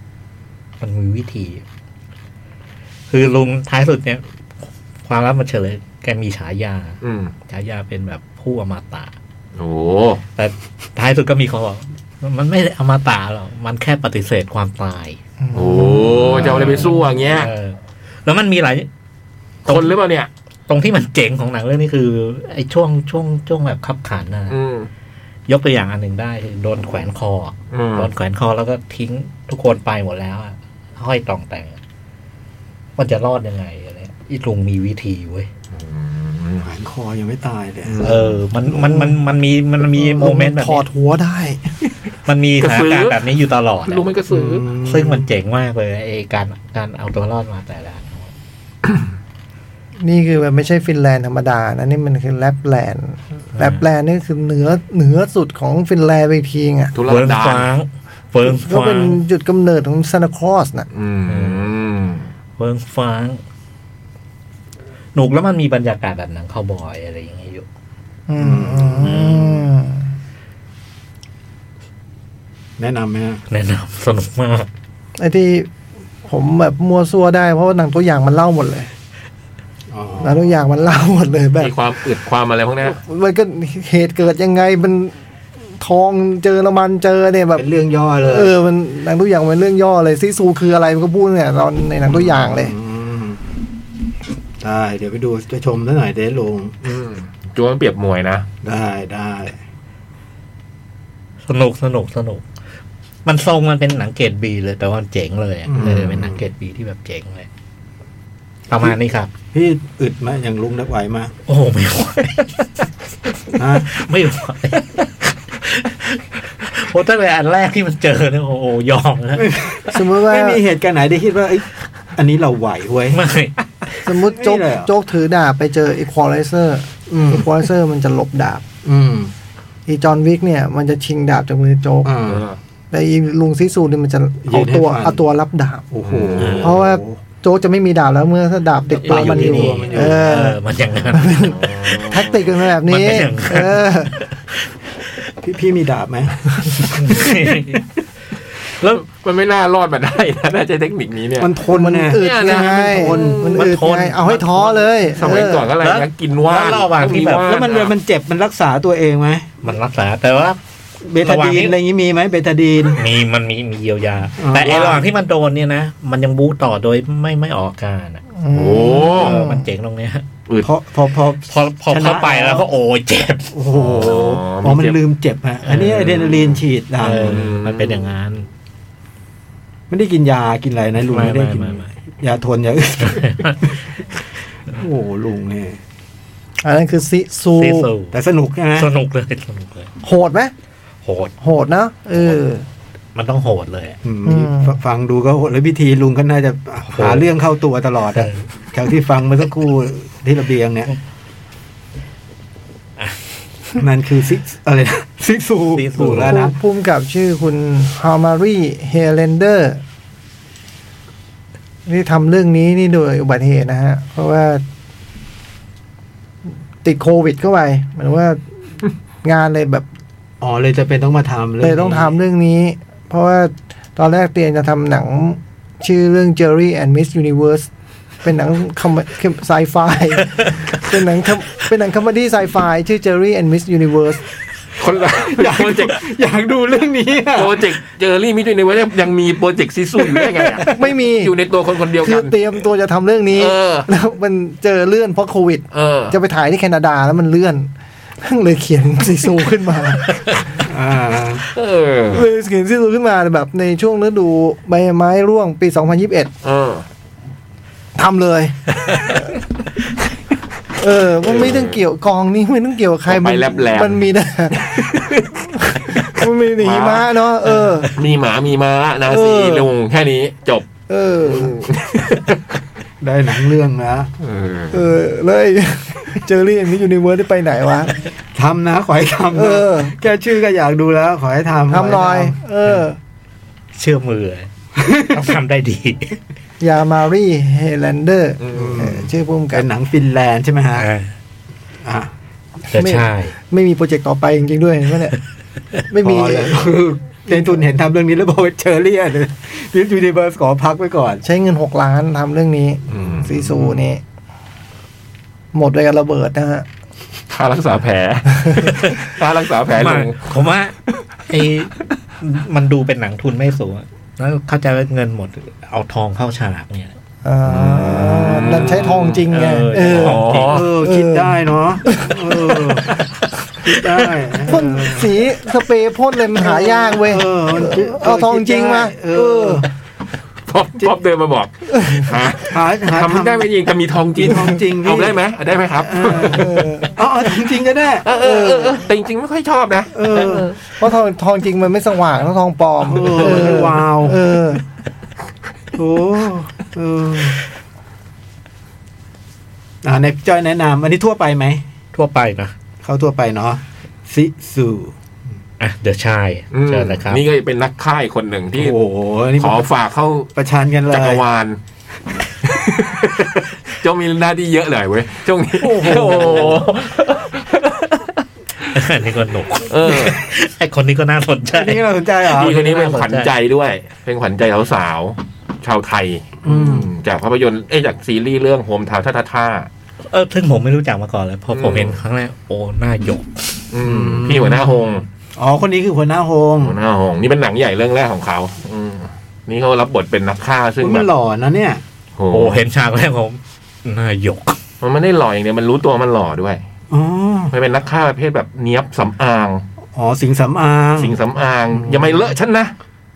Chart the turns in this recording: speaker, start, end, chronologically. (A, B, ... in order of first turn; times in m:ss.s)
0:00.8-0:01.6 A
0:03.1-0:04.2 A
0:05.0-0:09.1 A
0:07.0-0:07.3 B
0:09.6-0:10.2 B
0:10.4-0:15.2 A
0:15.4-0:16.6 C
0:15.5-0:17.5 B
0:16.1-0:18.9 A
0:19.7-0:20.0 A
0:19.7-0:20.3 B
0:20.7-0:24.6 A
0:24.5-0:24.9 B
0:25.5-0:31.8 A
0:27.7-0:28.1 B
0:33.0-0:35.5 A
0:35.7-0:36.7 B
0:36.6-0:38.1 D
0:37.8-0:38.4 B
0:38.0-0:40.8 A
0:38.7-0:39.2 C
0:39.8-0:41.6 C
0:42.3-0:44.1 A
0:42.6-0:43.2 B
0:43.9-0:44.7 B
0:44.3-0:45.3 D
0:44.8-0:48.3 A
0:50.0-0:56.9 C
0:53.6-0:53.8 A
0:56.9-0:57.7 B
0:57.1-0:59.2 A
0:58.4-1:00.9 C
1:00.9-1:02.3 B
1:01.3-1:01.7 A
1:02.6-1:03.4 A
1:05.2-1:07.7 A
1:08.3-1:10.0 C
1:08.4-1:09.3 D
1:09.1-1:09.5 B
1:12.8-1:13.4 D
1:13.5-1:14.7 A
1:15.2-1:15.7 C
1:16.3-1:18.9 C
1:19.9-1:20.5 D
1:20.2-1:21.7 C
1:21.6-1:23.0 B
1:22.9-1:25.1 C
1:25.8-1:27.7 C
1:27.6-1:28.5 D
1:28.2-1:32.8 C
1:32.1-1:33.4 D
1:34.6-1:36.9 D
1:36.8-1:38.5 B
1:38.6-1:39.6 D
1:41.5-1:42.4 A
1:43.2-1:47.5 A
1:45.7-1:46.4 D
1:48.7-1:49.3 A
1:49.5-1:51.3 D
1:51.5-1:52.6 A
1:53.6-1:53.9 D
1:53.6-1:59.6 A
1:59.4-2:03.2 D
1:59.9-2:00.6 C
2:03.1-2:03.6 A
2:04.0-2:08.6 C
2:04.3-2:04.9 D
2:07.1-2:07.5 D
2:08.8-2:09.3 D
2:09.9-2:12.1 C
2:12.0-2:12.4 D
2:12.3-2:12.6 B
2:12.9-2:15.9 C
2:14.4-2:15.2 D
2:15.9-2:17.2 D
2:16.0-2:16.8 B
2:16.4-2:16.6 A
2:16.6-2:20.6 C
2:19.0-2:20.4 D
2:19.0-2:21.7 A
2:21.1-2:24.2 C
2:21.4-2:22.5 B
2:22.8-2:24.7 A
2:25.4-2:27.3 D
2:26.8-2:27.8 A
2:28.8-2:31.5 B
2:31.4-2:33.5 D
2:31.7-2:35.7 C
2:32.2-2:33.7 B
2:33.5-2:37.5 A
2:35.1-2:37.9 B
2:37.4-2:39.5 D
2:39.6-2:40.6 A
2:41.0-2:43.0 D
2:41.2-2:41.8 A
2:43.0-2:48.2 A
2:44.4-2:45.0 D
2:48.4-2:49.7 C
2:48.5-2:49.4 B
2:49.2-2:50.3 A
2:50.6-2:52.7 D
2:51.5-2:53.5 A
2:53.5-2:57.4 D
2:53.7-2:55.0 B
2:55.6-2:56.3 A
2:56.1-2:56.6 B
2:57.0-2:58.5 A
2:57.1-2:58.0 B
2:59.9-3:03.9 D
3:01.1-3:01.9 A
3:03.1-3:03.7 A
3:04.7-3:05.8 D
3:06.6-3:07.9 C
3:07.6-3:08.2 A
3:08.1-3:08.9 D
3:08.8-3:09.9 A
3:10.0-3:10.5 C
3:11.0-3:11.4 A
3:11.4-3:12.7 C
3:13.2-3:14.0 A
3:14.0-3:20.9 D
3:14.3-3:14.8 C
3:16.9-3:17.3 A
3:18.1-3:18.5 A
3:23.8-3:26.6 D
3:25.7-3:26.5 A
3:26.3-3:29.8 C
3:31.9-3:34.6 C
3:36.8-3:38.4 C
3:39.2-3:39.9 C
3:40.4-3:42.2 D
3:41.6-3:47.7 C
3:48.2-3:54.2 C
3:54.8-3:56.0 B
3:55.1-3:57.7 D
3:57.3-4:02.4 B
4:00.0-4:00.8 D
4:00.7-4:01.3 C
4:02.0-4:07.7 C
4:03.3-4:03.9 B
4:05.7-4:06.2 B
4:08.2-4:10.4 C
4:10.6-4:11.4 D
4:11.5-4:12.3 B
4:12.1-4:16.3 C
4:16.4-4:16.8 B
4:18.0-4:19.3 C
4:20.8-4:24.8 C
4:21.2-4:21.8 B
4:23.1-4:30.7 B
4:25.5-4:27.9 C
4:29.1-4:29.7 C
4:30.9-4:31.6 C
4:31.2-4:32.4 B
4:33.0-4:34.1 D
4:34.2-4:34.9 B
4:34.7-4:38.0 C
4:38.3-4:42.4 D
4:39.3-4:39.9 C
4:41.7-4:43.0 C
4:43.8-4:46.2 A
4:44.8-4:45.2 D
4:46.6-4:49.7 C
4:48.4-4:48.9 B
4:48.5-4:50.9 D
4:50.8-4:51.1 A
4:51.8-4:52.1 D
4:52.7-4:53.4 A
4:52.7-4:55.2 C
4:55.9-4:56.7 C
4:56.0-5:01.2 D
4:57.3-4:57.6 C
5:01.2-5:04.0 C
5:02.9-5:03.3 B
5:02.9-5:03.9 D
5:05.5-5:06.7 C
5:07.3-5:10.2 B
5:08.6-5:09.0 A
5:09.8-5:10.7 A
5:11.3-5:16.9 A
5:17.2-5:20.2 C
5:17.4-5:19.3 B
5:19.3-5:20.6 A
5:19.9-5:20.7 B
5:20.5-5:22.9 D
5:20.8-5:22.8 C
5:23.6-5:25.2 D
5:24.4-5:29.7 C
5:26.4-5:29.7 D
5:30.5-5:36.7 B
5:31.8-5:32.1 C
5:32.5-5:33.5 D
5:34.2-5:35.2 D
5:35.8-5:38.0 D
5:36.3-5:36.9 C
5:38.0-5:40.5 B
5:38.2-5:38.9 C
5:39.9-5:40.5 D
5:40.8-5:44.6 C
5:42.8-5:44.2 D
5:45.8-5:47.4 D
5:49.8-5:51.6 D
5:51.9-5:52.5 A
5:52.8-5:55.0 D
5:55.6-5:57.2 A
5:56.5-5:58.8 B
5:58.5-5:59.7 D
5:59.4-6:00.3 B
6:00.4-6:01.2 D
6:00.9-6:01.6 B
6:02.4-6:08.1 B
6:05.6-6:06.7 D
6:08.7-6:11.8 A
6:09.7-6:10.2 B
6:11.5-6:12.7 D
6:12.2-6:19.7 B
6:12.4-6:13.3 A
6:16.4-6:16.9 D
6:20.1-6:23.6 A
6:21.5-6:22.0 B
6:23.7-6:25.1 B
6:23.8-6:24.8 D
6:25.4-6:26.8 D
6:26.6-6:31.1 B
6:30.8-6:31.8 D
6:32.2-6:32.6 B
6:32.3-6:34.6 A
6:34.8-6:36.6 B
6:36.9-6:37.5 D
6:37.5-6:39.6 B
6:40.0-6:41.2 D
6:41.0-6:42.7 B
6:41.8-6:42.2 D